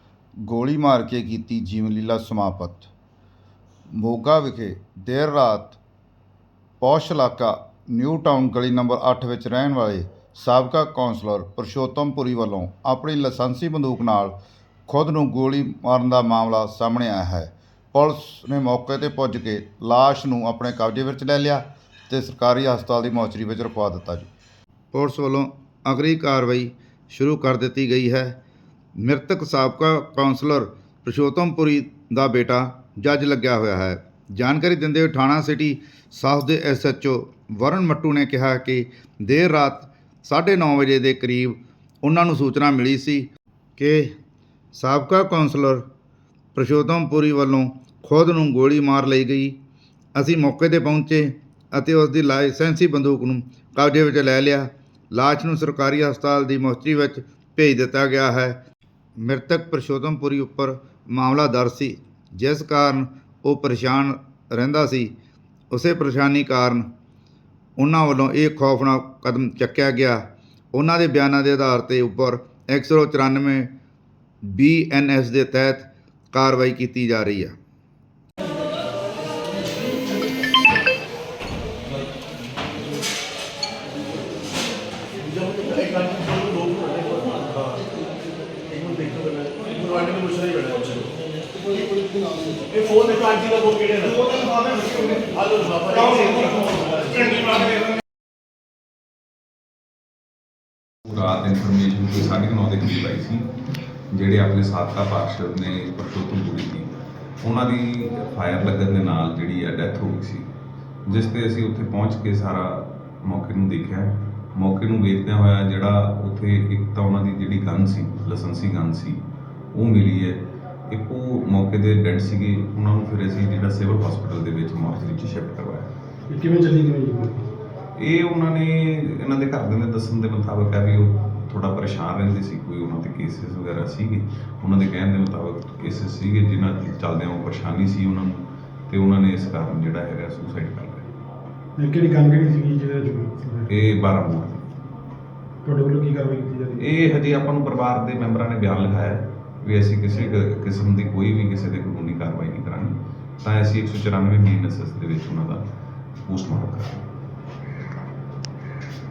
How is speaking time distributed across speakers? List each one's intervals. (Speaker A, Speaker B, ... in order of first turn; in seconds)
Speaker A: 0.5-2.9, 4.0-5.8, 6.8-14.3, 14.9-24.3, 24.9-28.4, 29.0-44.1, 44.7-45.9, 46.5-49.6, 50.2-58.6, 59.2-65.1, 65.7-66.9, 67.8-73.7, 74.5-77.5
Speaker B: 85.3-87.8, 88.7-91.1, 92.8-97.5
Speaker C: 92.0-92.7, 126.3-127.5, 141.8-143.7, 145.6-146.9
Speaker D: 101.1-103.5, 104.1-110.5, 111.1-119.2, 119.7-125.9, 128.0-141.1, 143.7-144.6, 146.8-155.6, 156.2-157.0